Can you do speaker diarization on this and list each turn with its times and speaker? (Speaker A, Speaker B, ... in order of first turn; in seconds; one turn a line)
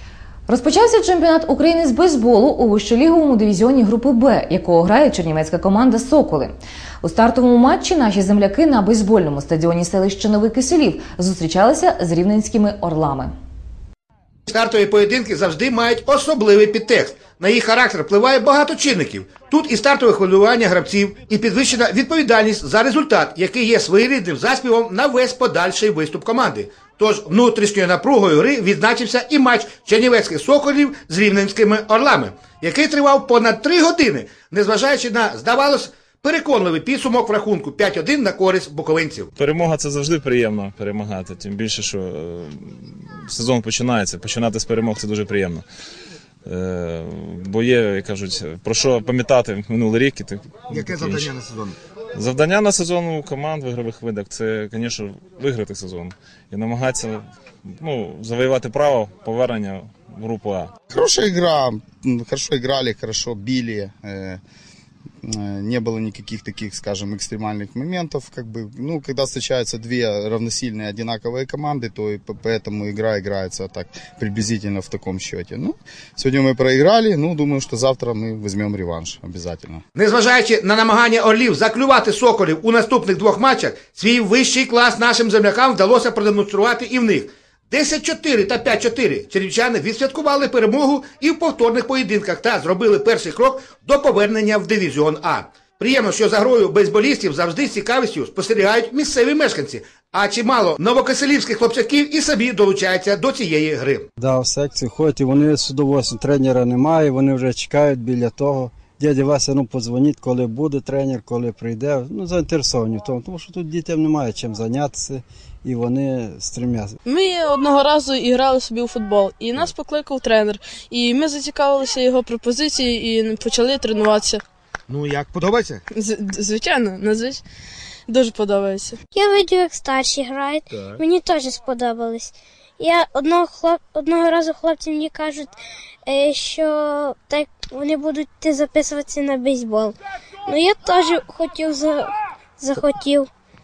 Speaker A: 0.5-13.3
Speaker B: 14.5-39.3
Speaker C: 39.4-45.6
Speaker C: 46.5-51.3
Speaker B: 50.7-51.8
Speaker C: 52.1-57.2
Speaker C: 57.8-60.7
Speaker D: 60.9-64.4
Speaker D: 65.2-79.8
Speaker B: 80.0-104.0
Speaker E: 104.2-117.0
Speaker F: 117.1-124.4
Speaker B: 124.9-125.8
Speaker F: 126.0-127.4
Speaker F: 128.1-129.0
Speaker G: 129.1-135.5
Speaker G: 136.1-140.0
Speaker G: 140.5-143.3